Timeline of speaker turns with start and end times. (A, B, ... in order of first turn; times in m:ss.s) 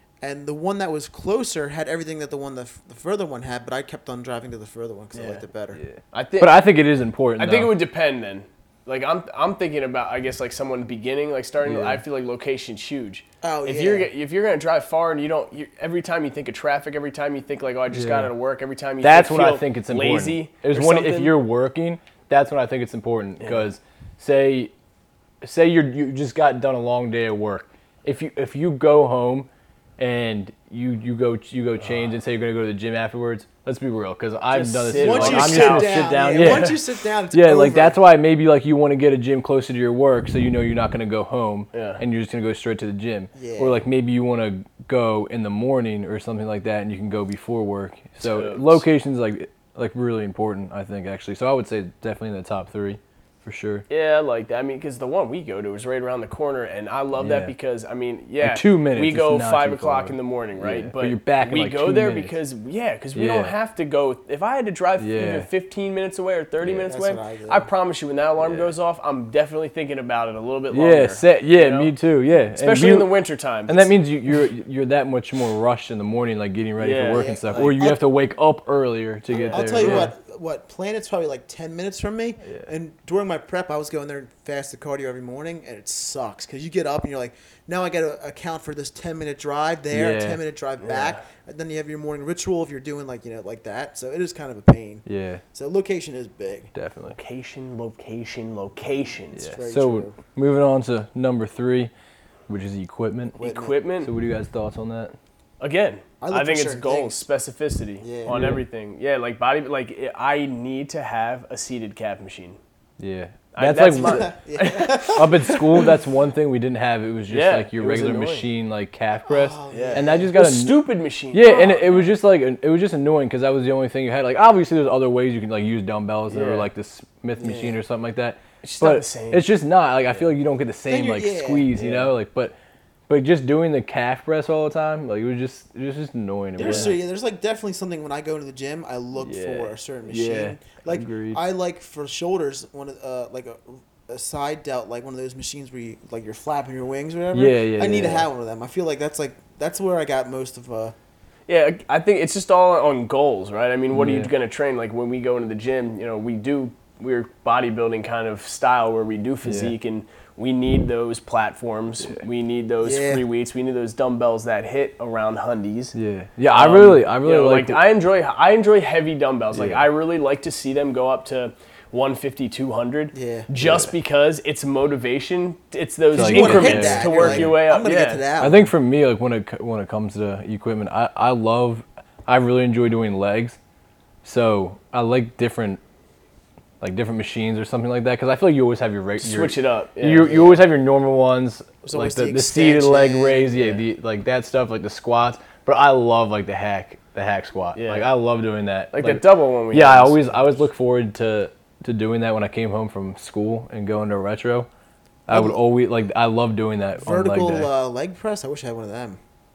0:00.2-0:05.8 A
0:05.1-0:05.4 B
0:05.8-0:07.8 C
0:06.1-0:06.6 B
0:07.4-0:21.4 B
0:11.6-0:12.0 C
0:13.4-0:14.1 A
0:17.9-0:18.3 C
0:19.0-0:24.7 C
0:25.4-0:36.8 C
0:34.5-0:36.8 B
0:34.9-0:38.0 A
0:37.3-0:53.8 C
0:41.7-0:42.0 B
0:43.4-0:43.8 A
0:48.2-0:48.8 B
0:53.9-1:11.9 B
0:57.2-0:57.5 C
0:58.4-1:02.3 C
1:03.1-1:03.5 C
1:05.0-1:05.5 C
1:06.9-1:07.7 A
1:08.4-1:08.7 C
1:10.7-1:13.1 C
1:12.6-1:13.9 B
1:13.7-1:20.1 C
1:16.8-1:17.6 B
1:17.1-1:18.0 A
1:19.3-1:20.1 B
1:19.5-1:36.7 A
1:29.9-1:30.4 C
1:30.8-1:31.2 B
1:35.1-1:35.4 C
1:36.7-1:37.2 C
1:37.2-1:39.5 B
1:39.4-1:41.9 C
1:39.4-1:40.2 A
1:42.5-1:43.4 C
1:43.4-1:43.8 A
1:43.4-1:44.1 B
1:44.0-1:45.2 C
1:45.6-1:52.6 B
1:46.2-1:47.2 A
1:48.0-1:48.4 A
1:48.3-1:48.6 C
1:53.0-1:54.4 C
1:53.5-1:55.6 B
1:54.0-1:55.6 A
1:55.0-2:12.6 C
1:57.3-1:58.5 B
1:59.3-2:00.4 A
1:59.7-2:02.1 B
2:06.3-2:06.7 B
2:07.4-2:07.8 A
2:08.6-2:09.5 B
2:10.9-2:11.8 A
2:11.8-2:12.1 B
2:13.1-2:17.0 C
2:16.6-2:31.0 A
2:16.6-2:17.0 B
2:19.2-2:21.4 C
2:27.3-2:28.3 C
2:31.5-2:46.0 B
2:33.9-2:34.3 C
2:39.4-2:39.7 C
2:42.8-2:43.2 A
2:46.0-2:47.8 C
2:46.5-2:58.3 B
2:49.5-2:49.8 C
2:53.1-2:53.5 A
2:53.6-2:53.9 C
2:56.1-2:57.6 C
2:56.2-2:58.7 A
2:58.4-3:03.6 C
3:04.2-3:05.8 C
3:06.8-3:24.7 C
3:09.2-3:10.6 B
3:11.8-3:13.5 A
3:17.8-3:18.1 B
3:18.9-3:20.3 B
3:25.3-3:27.7 C
3:25.3-3:25.6 A
3:27.0-3:29.2 A